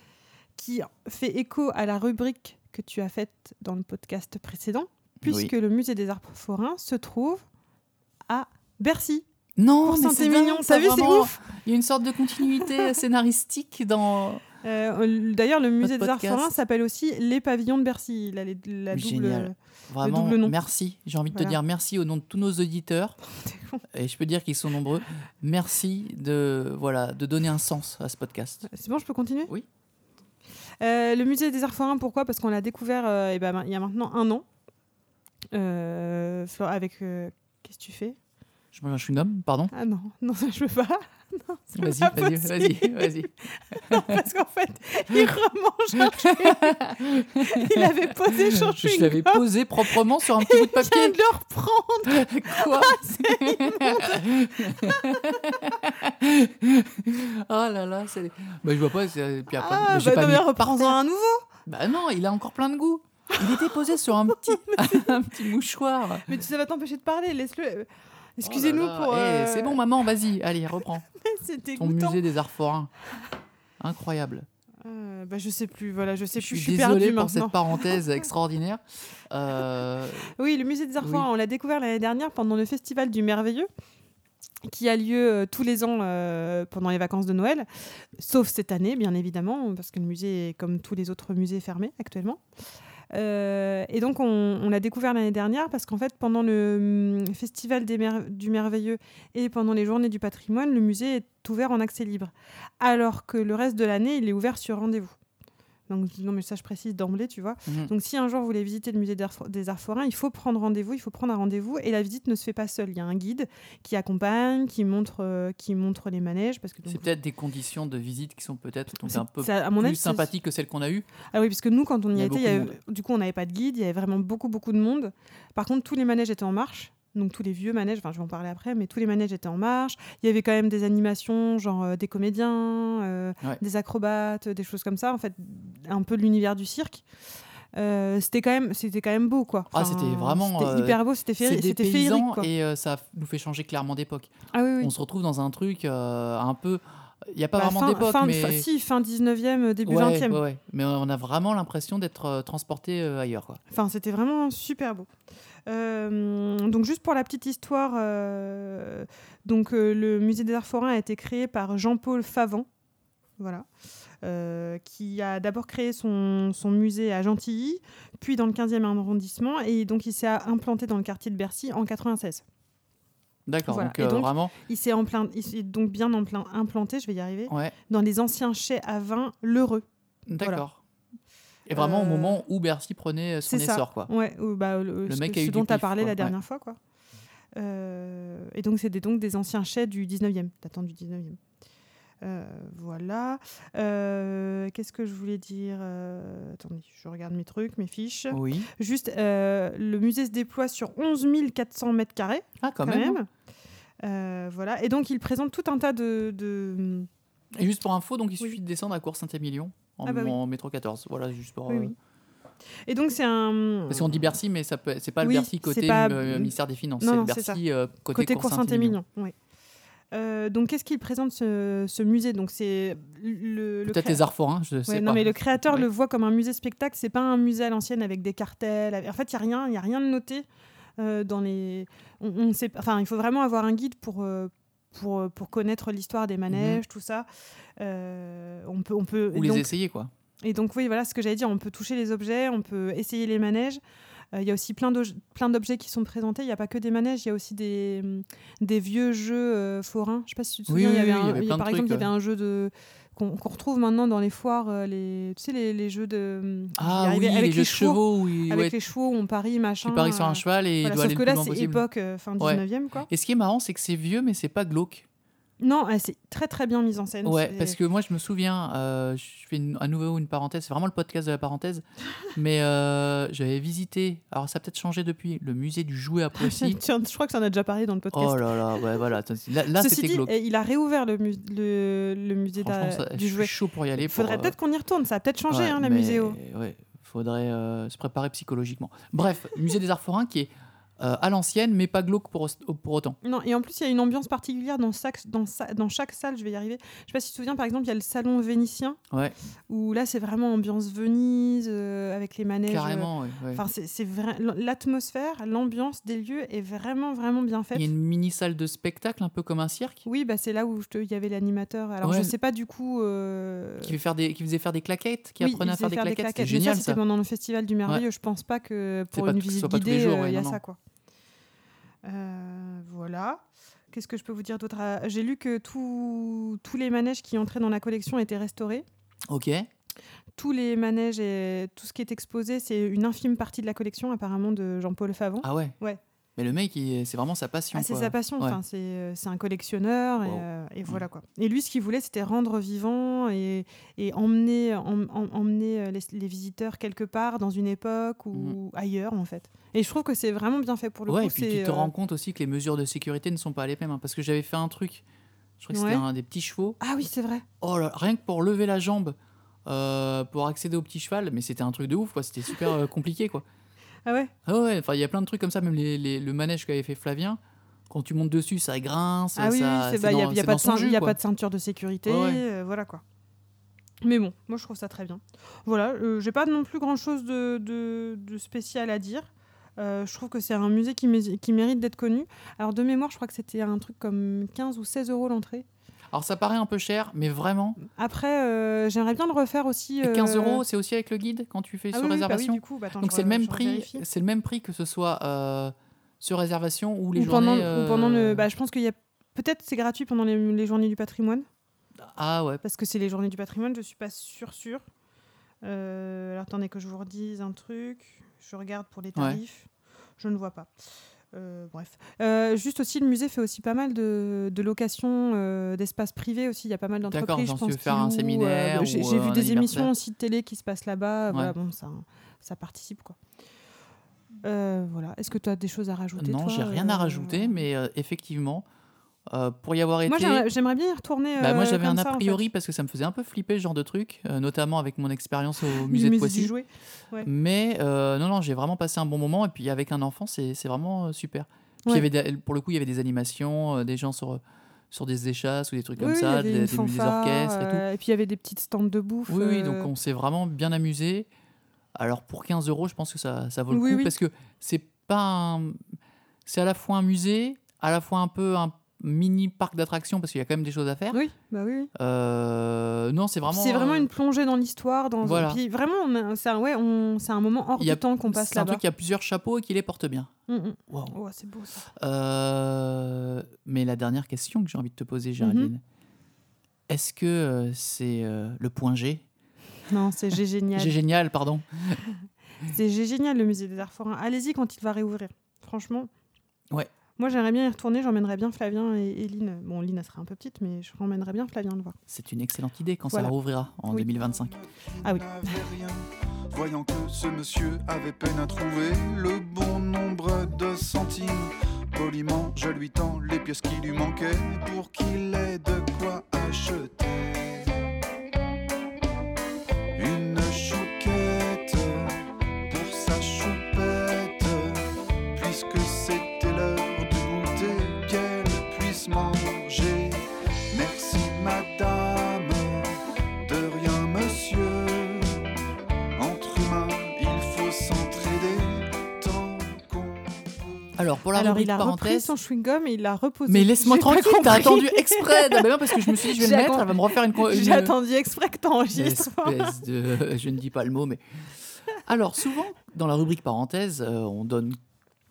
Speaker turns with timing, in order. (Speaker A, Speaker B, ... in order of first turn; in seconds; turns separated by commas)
Speaker A: 0.6-7.4, Speaker B: 5.2-5.5, Speaker A: 8.3-9.2, Speaker B: 9.6-14.4, Speaker A: 9.8-11.4, Speaker A: 14.6-20.5, Speaker B: 15.8-16.5, Speaker B: 18.9-23.1, Speaker A: 21.3-21.6, Speaker A: 23.3-23.8, Speaker B: 23.9-28.6, Speaker A: 28.6-29.5, Speaker A: 30.8-34.4, Speaker A: 35.5-38.2, Speaker B: 38.7-39.7, Speaker A: 39.7-55.8, Speaker B: 41.7-44.2, Speaker B: 46.0-51.2, Speaker B: 52.0-61.0, Speaker A: 59.5-61.5, Speaker B: 61.6-66.4, Speaker A: 63.3-63.7, Speaker A: 64.3-65.2, Speaker A: 66.2-69.8, Speaker B: 68.4-71.0, Speaker A: 71.1-72.2, Speaker B: 71.8-72.9, Speaker B: 73.8-74.5, Speaker A: 74.8-78.0, Speaker B: 76.4-80.3, Speaker A: 80.3-83.7, Speaker B: 81.0-81.3, Speaker A: 84.6-92.4, Speaker A: 93.1-105.2, Speaker A: 105.9-117.1, Speaker B: 107.7-107.9, Speaker B: 116.8-121.1, Speaker A: 119.0-120.3, Speaker A: 121.3-137.0, Speaker B: 122.1-122.8, Speaker A: 137.7-142.5, Speaker B: 139.7-148.7, Speaker A: 144.5-144.9, Speaker A: 147.5-150.4, Speaker B: 149.8-153.6, Speaker A: 153.7-155.1, Speaker A: 155.7-162.7, Speaker A: 163.4-163.7, Speaker A: 164.2-172.4, Speaker B: 173.5-174.5, Speaker A: 173.7-179.8, Speaker B: 177.5-177.7, Speaker B: 180.3-180.8, Speaker B: 181.7-184.1, Speaker A: 181.7-182.4, Speaker A: 183.4-186.8, Speaker B: 185.1-186.3, Speaker A: 187.6-191.4, Speaker A: 192.2-203.3, Speaker B: 198.3-198.7, Speaker B: 202.6-203.2, Speaker A: 204.0-207.1, Speaker B: 207.5-211.9, Speaker A: 210.0-210.4, Speaker A: 211.7-211.9, Speaker A: 212.9-214.2, Speaker B: 213.9-219.0, Speaker A: 215.2-217.6, Speaker A: 218.1-219.3, Speaker A: 220.1-224.2, Speaker B: 223.8-225.9, Speaker A: 224.9-230.4, Speaker A: 231.0-237.3, Speaker B: 236.5-236.8, Speaker A: 237.8-239.7, Speaker B: 239.3-240.1, Speaker A: 240.4-243.8, Speaker A: 244.3-263.1, Speaker B: 250.7-252.1, Speaker B: 256.8-258.7, Speaker B: 259.8-261.8, Speaker B: 262.4-265.1, Speaker A: 265.6-267.8, Speaker B: 267.2-276.8, Speaker A: 276.4-279.0, Speaker B: 278.1-280.3, Speaker A: 279.7-286.4, Speaker B: 282.6-284.5, Speaker B: 285.5-293.2, Speaker A: 293.2-299.0, Speaker A: 299.7-307.9, Speaker B: 302.7-303.6, Speaker B: 307.7-310.0, Speaker A: 310.0-313.9, Speaker B: 312.0-312.3, Speaker B: 313.8-317.0, Speaker A: 315.4-320.8, Speaker B: 319.1-320.6, Speaker A: 322.0-328.8, Speaker B: 329.3-329.7, Speaker A: 330.4-336.0, Speaker B: 335.4-335.8, Speaker B: 336.4-338.6, Speaker A: 337.7-351.9, Speaker B: 340.2-341.0, Speaker B: 351.1-355.0, Speaker B: 355.6-356.8, Speaker A: 355.7-356.0, Speaker A: 356.8-357.4, Speaker B: 357.6-363.4, Speaker A: 364.1-364.3, Speaker B: 364.4-367.4, Speaker B: 367.9-371.2, Speaker A: 369.4-373.0, Speaker B: 372.1-372.4, Speaker A: 374.0-385.6, Speaker B: 386.1-387.8, Speaker A: 387.8-390.6, Speaker B: 390.0-398.4, Speaker A: 391.9-394.0, Speaker A: 397.1-401.4, Speaker B: 402.0-402.6, Speaker A: 402.6-404.8, Speaker A: 405.6-410.7, Speaker B: 409.1-409.4, Speaker A: 411.3-423.2, Speaker B: 417.1-419.9, Speaker A: 424.4-427.6, Speaker B: 426.2-428.6, Speaker B: 429.3-430.5, Speaker A: 430.1-432.4, Speaker B: 431.4-436.5, Speaker A: 435.7-437.3, Speaker B: 437.2-447.8, Speaker A: 446.0-449.9, Speaker B: 449.3-451.3, Speaker B: 451.9-455.8, Speaker A: 453.7-454.1, Speaker B: 456.4-461.2, Speaker A: 461.1-461.9, Speaker B: 461.9-464.1, Speaker A: 463.5-468.8, Speaker B: 465.2-465.6, Speaker B: 467.8-470.3, Speaker A: 470.5-471.9, Speaker B: 471.9-475.8, Speaker A: 475.4-475.7, Speaker B: 476.9-479.2, Speaker A: 479.9-480.9, Speaker B: 480.8-482.0, Speaker A: 482.6-486.1, Speaker A: 487.2-492.0, Speaker B: 492.1-494.5, Speaker C: 494.2-507.8, Speaker A: 495.0-495.5, Speaker C: 509.9-525.4, Speaker C: 526.2-530.8, Speaker B: 531.0-532.3, Speaker A: 531.3-539.8, Speaker B: 533.5-537.9, Speaker B: 538.9-541.2, Speaker B: 541.9-544.8